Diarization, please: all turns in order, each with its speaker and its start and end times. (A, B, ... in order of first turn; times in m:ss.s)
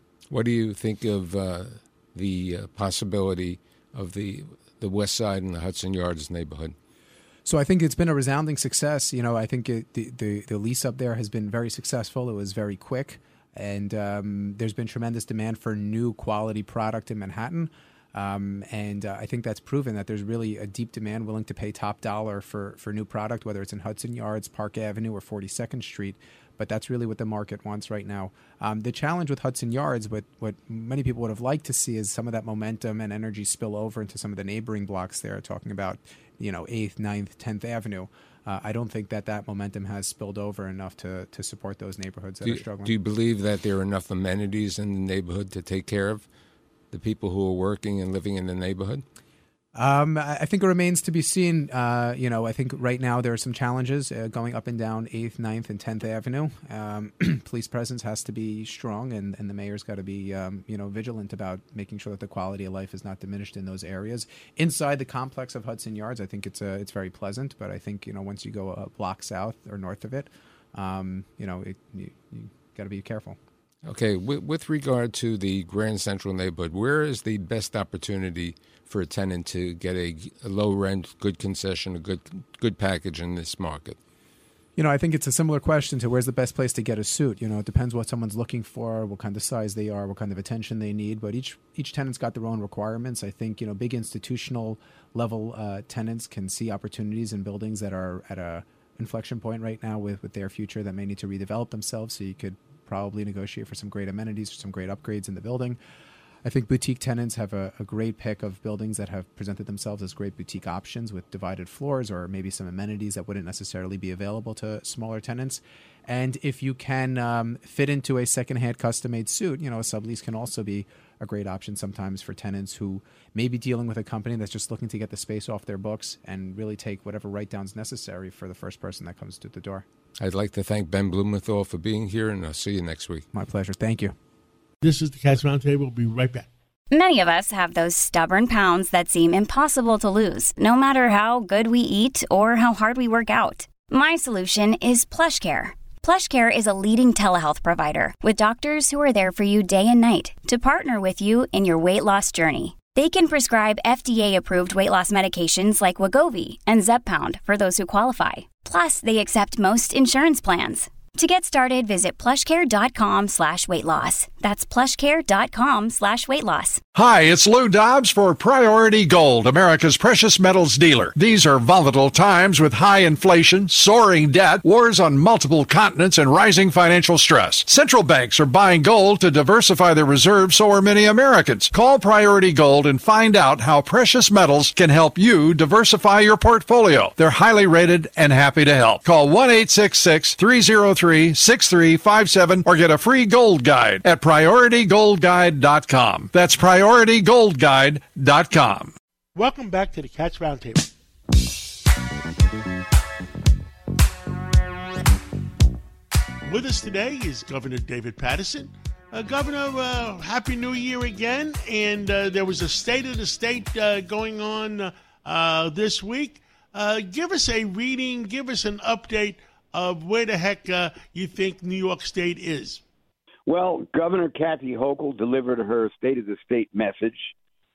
0:00.3-0:06.8 A
0:07.5-0:42.9 B
0:42.4-0:46.3 A
0:46.9-0:49.0 A
0:49.8-1:13.4 B
1:13.8-1:24.0 A
1:24.8-1:45.8 B
1:46.4-2:09.8 B
2:10.2-2:13.3 A
2:13.3-2:14.2 B
2:14.8-2:16.5 C
2:16.9-2:46.8 D
2:46.9-3:18.9 E
3:19.4-3:20.9 C
3:26.5-3:42.8 C
3:43.5-3:47.3 F